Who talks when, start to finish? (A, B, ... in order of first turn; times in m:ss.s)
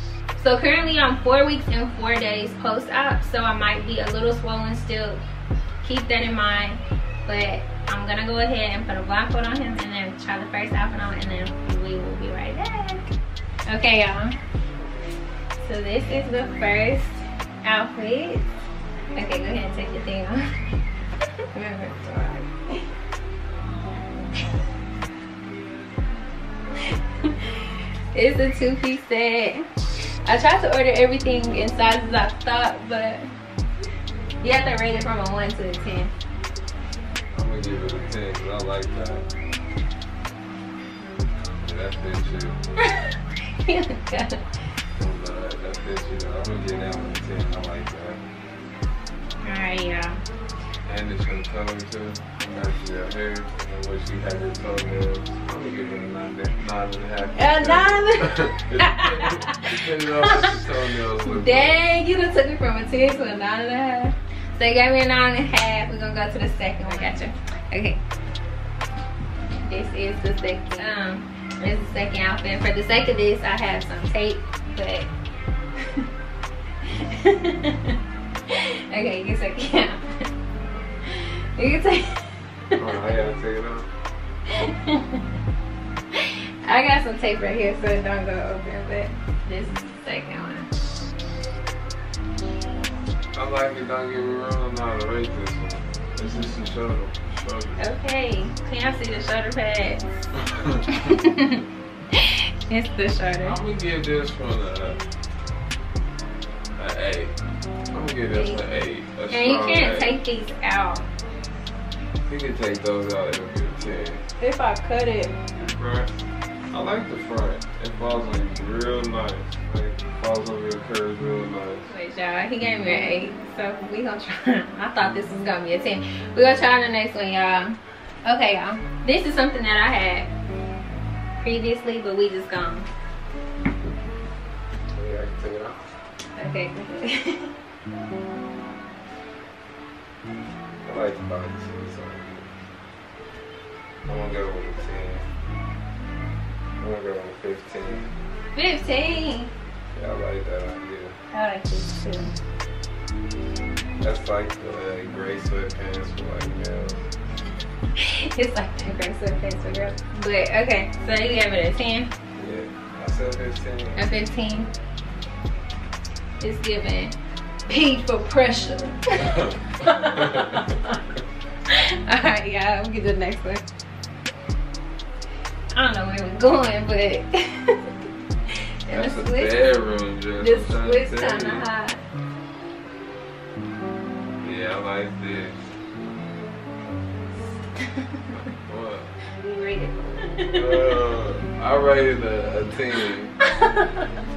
0:00.4-0:05.2 A
0:05.8-0:13.1 A
0:13.7-0:14.3 A
0:15.6-0:18.5 A
0:19.1-0:20.4 A
0:21.5-0:22.8 A
0:27.2-0:29.7 A
0:30.2-0:33.3 A
0:34.4-0:36.1 A
0:37.3-0:39.3 B
0:41.6-0:42.6 B
0:43.0-0:44.4 A
0:45.0-0:48.2 B
0:49.4-0:50.2 A
0:50.8-1:01.8 B
0:57.3-1:00.6 A
1:01.2-1:08.0 A
1:09.6-1:15.1 A
1:16.9-1:18.0 A
1:18.5-1:20.0 A
1:21.1-1:22.2 A
1:22.8-1:23.9 B
1:24.5-1:25.2 A
1:26.1-1:30.7 A
1:33.3-1:37.9 B
1:37.8-1:40.3 A
1:40.5-1:40.8 B
1:40.9-1:41.6 A
1:42.1-1:43.6 A
1:43.4-1:45.0 B
1:46.8-1:47.3 B
1:47.9-1:50.1 B
1:48.3-1:48.7 A
1:49.3-1:51.0 A
1:52.3-1:54.2 B
1:54.4-1:55.4 A
1:55.5-2:01.9 B
2:01.9-2:10.3 A
2:11.4-2:12.9 A
2:14.9-2:15.9 B
2:16.4-2:17.5 A
2:20.8-2:22.5 B
2:24.0-2:25.3 B
2:26.8-2:28.1 B
2:28.5-2:29.5 A
2:29.9-2:31.1 B
2:31.3-2:32.3 A
2:34.0-2:37.1 B
2:38.0-2:42.1 A
2:42.4-2:44.0 B
2:44.0-2:44.7 A
2:46.4-2:51.0 A
2:50.2-2:50.5 B
2:51.7-2:53.6 A
2:55.7-2:57.8 A
2:58.8-2:59.6 A
2:58.9-3:01.6 B
3:00.4-3:02.0 A
3:04.4-3:05.7 B
3:07.8-3:08.2 A
3:08.3-3:09.1 B
3:09.3-3:11.0 A
3:10.4-3:13.3 B
3:13.5-3:13.9 A